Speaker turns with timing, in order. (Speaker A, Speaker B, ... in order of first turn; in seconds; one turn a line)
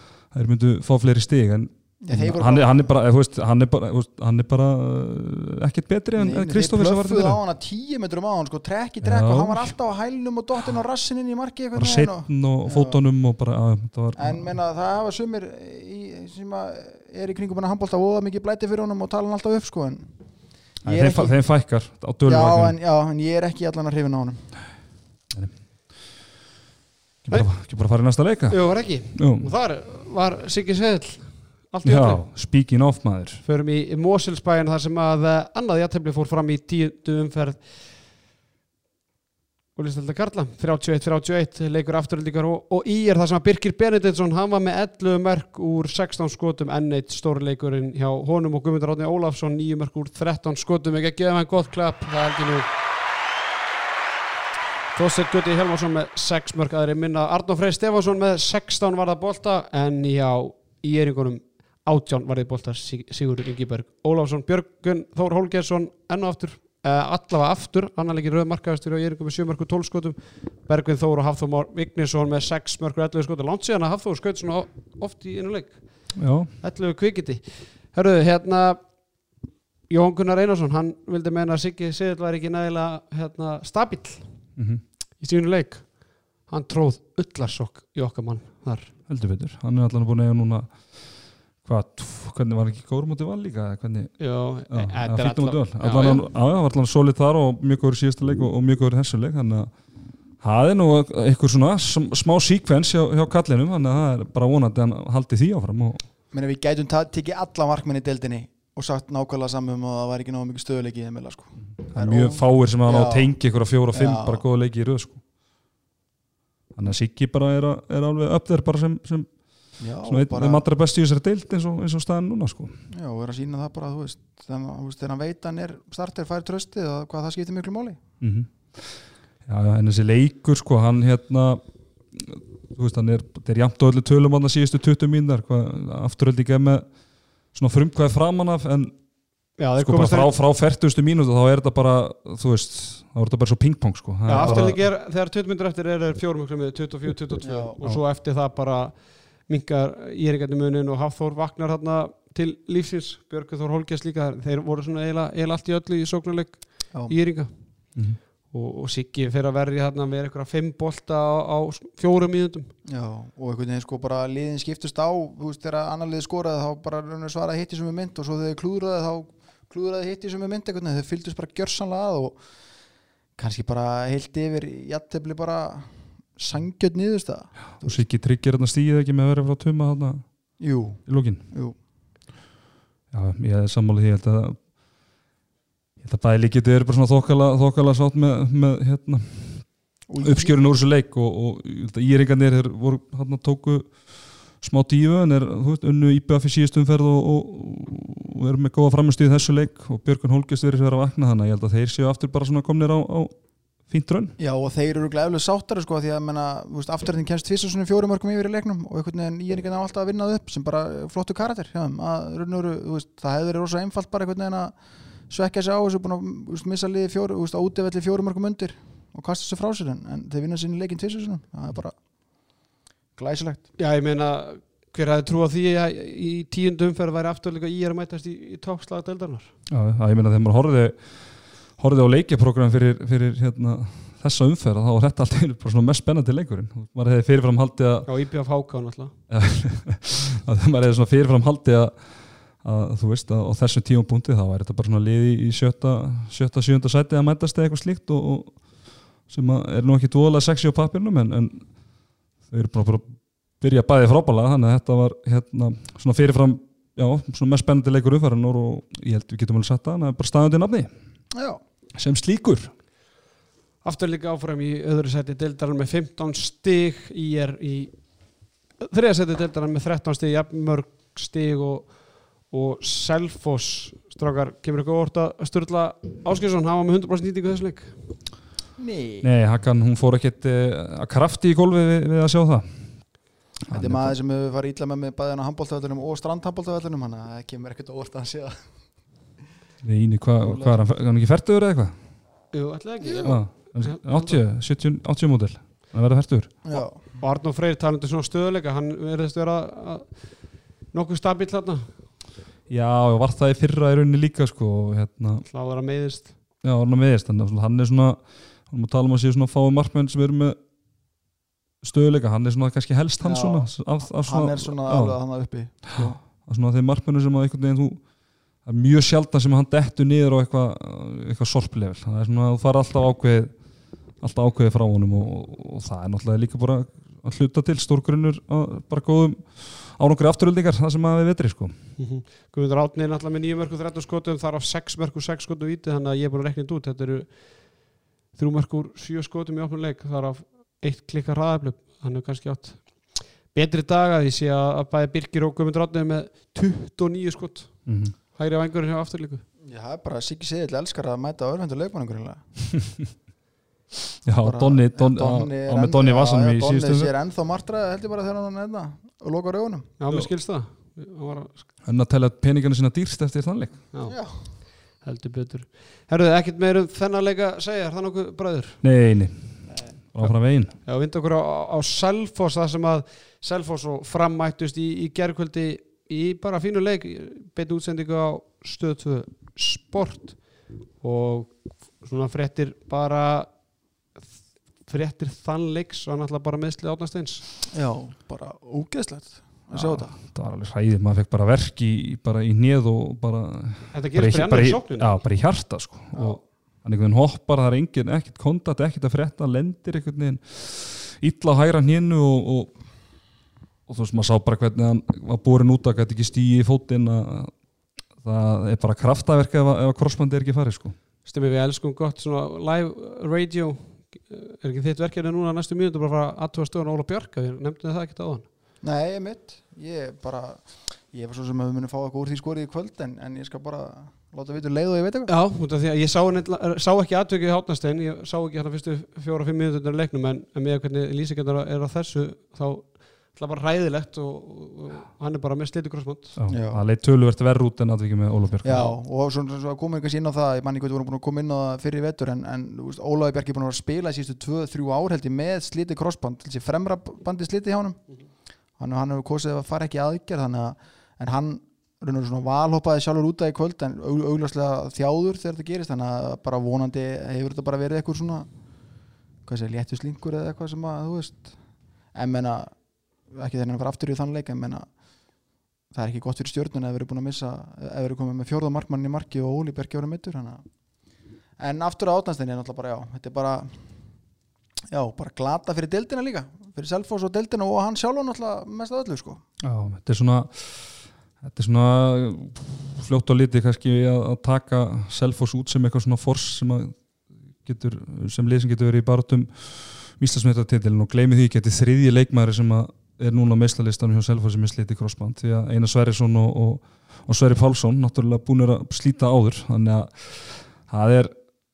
Speaker A: 0.3-7.4
Speaker B: 2.0-2.9
Speaker B: 6.2-13.0
Speaker A: 9.0-9.7
Speaker A: 11.8-14.5
Speaker B: 14.2-20.1
Speaker A: 20.8-22.8
Speaker B: 20.9-21.4
Speaker B: 22.2-24.5
Speaker A: 27.2-28.6
Speaker C: 28.5-32.2
Speaker A: 29.1-29.5
Speaker A: 31.9-33.4
Speaker C: 33.4-37.7
Speaker C: 39.8-52.7
Speaker C: 54.9-75.8
Speaker A: 76.2-76.5
Speaker C: 76.6-78.8
Speaker C: 79.9-84.3
Speaker A: 84.6-84.8
Speaker C: 85.2-85.9
Speaker C: 86.5-88.9
Speaker A: 89.1-90.7
Speaker A: 91.7-94.2
Speaker C: 94.2-96.2
Speaker A: 94.7-99.7
Speaker A: 100.4-106.0
Speaker B: 106.3-113.3
Speaker A: 111.8-115.2
Speaker B: 113.9-114.4
Speaker A: 116.8-119.3
Speaker B: 119.8-120.7
Speaker A: 120.0-122.7
Speaker B: 122.9-128.0
Speaker A: 128.2-131.6
Speaker A: 132.1-136.8
Speaker A: 137.5-138.9
Speaker C: 139.6-140.3
Speaker A: 139.8-144.8
Speaker C: 144.3-157.5
Speaker B: 147.4-147.8
Speaker C: 158.5-162.7
Speaker B: 162.9-172.4
Speaker B: 173.4-178.0
Speaker A: 177.8-180.2
Speaker B: 180.6-181.8
Speaker A: 181.1-181.4
Speaker A: 183.1-184.6
Speaker A: 186.0-189.7
Speaker B: 190.1-190.6
Speaker A: 190.2-194.0
Speaker A: 194.6-203.3
Speaker A: 203.9-204.3
Speaker B: 204.4-214.7
Speaker B: 215.3-222.0
Speaker B: 223.2-223.7
Speaker C: 223.8-229.5
Speaker A: 229.7-231.0
Speaker A: 231.8-238.1
Speaker C: 238.1-239.1
Speaker A: 239.3-241.9
Speaker A: 242.6-248.6
Speaker A: 249.3-251.7
Speaker A: 252.5-253.1
Speaker A: 253.6-260.9
Speaker B: 261.3-261.6
Speaker A: 262.0-262.7
Speaker C: 263.8-267.9
Speaker C: 268.8-271.9
Speaker C: 272.5-278.0
Speaker B: 278.8-279.3
Speaker A: 279.2-282.7
Speaker A: 283.7-284.1
Speaker B: 283.7-288.6
Speaker A: 289.8-291.9
Speaker B: 290.4-290.8
Speaker C: 292.5-294.4
Speaker B: 293.0-293.3
Speaker A: 293.2-296.5
Speaker B: 296.6-297.0
Speaker C: 296.7-300.1
Speaker C: 300.9-301.9
Speaker A: 302.7-305.4
Speaker C: 305.5-306.3
Speaker A: 306.6-308.2
Speaker A: 308.7-310.6
Speaker A: 311.8-315.2
Speaker B: 313.2-316.2
Speaker A: 315.9-318.0
Speaker A: 318.6-323.5
Speaker A: 324.2-331.7
Speaker C: 332.0-337.4
Speaker C: 338.4-347.8
Speaker A: 347.9-348.1
Speaker C: 348.3-349.4
Speaker B: 349.6-352.4
Speaker A: 354.2-357.1
Speaker B: 354.4-359.9
Speaker C: 360.0-361.6
Speaker A: 361.8-363.8
Speaker B: 364.1-364.4
Speaker C: 365.0-368.8
Speaker A: 368.8-370.7
Speaker C: 370.9-380.4
Speaker C: 381.0-383.5
Speaker C: 384.9-387.4
Speaker B: 387.7-390.1
Speaker A: 389.7-402.7
Speaker C: 393.9-395.2
Speaker A: 403.9-407.5
Speaker A: 408.2-410.9
Speaker C: 411.2-418.5
Speaker B: 418.8-425.3
Speaker C: 425.3-436.4
Speaker A: 436.4-438.9
Speaker B: 436.5-436.8
Speaker B: 438.6-448.0
Speaker B: 448.8-458.5
Speaker B: 459.5-461.6
Speaker B: 462.1-462.7
Speaker B: 463.3-464.9
Speaker B: 465.9-470.6
Speaker B: 471.6-473.7
Speaker B: 474.9-479.4
Speaker A: 479.6-480.9
Speaker A: 481.4-486.9
Speaker A: 487.6-501.3